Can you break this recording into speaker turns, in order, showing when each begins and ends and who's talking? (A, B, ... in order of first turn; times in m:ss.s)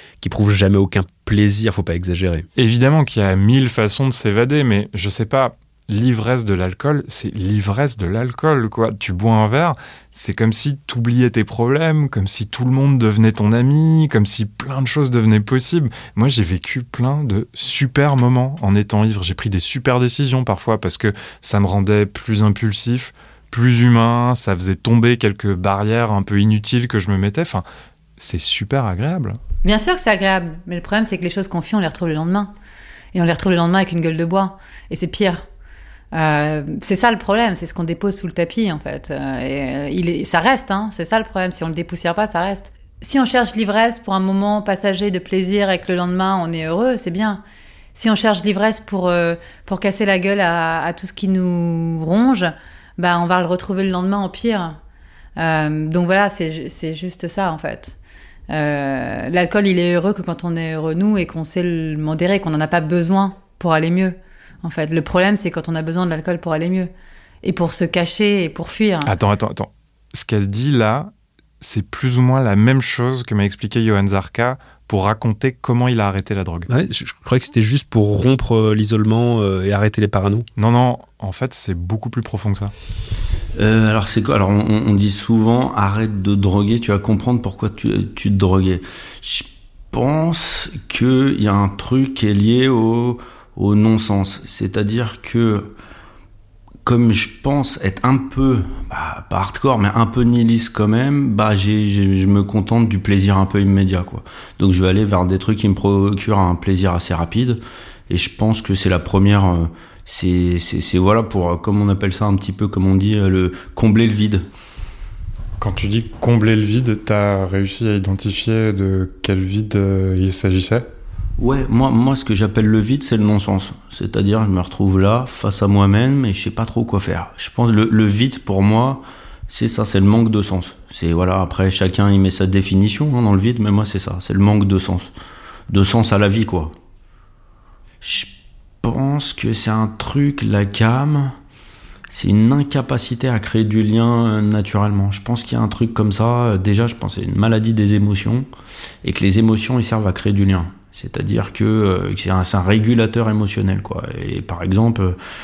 0:00.2-0:02.5 A
0:02.6-0:27.6 B
0:28.2-0:29.4 B
0:29.6-0:32.5 C
0:33.1-0:35.4 C
0:36.1-0:47.4 C
0:48.0-0:54.8 C
0:55.4-0:58.0 C
0:58.5-1:06.9 C
1:07.4-1:09.1 C
1:09.0-1:16.7 B
1:16.7-1:20.5 A
1:20.6-1:22.7 B
1:23.6-1:35.7 D
1:36.8-1:54.5 D
1:55.6-2:00.9 B
2:01.4-2:15.1 D
2:15.7-2:16.7 D
2:18.0-2:21.3 D
2:22.1-2:28.5 D
2:29.0-2:35.2 D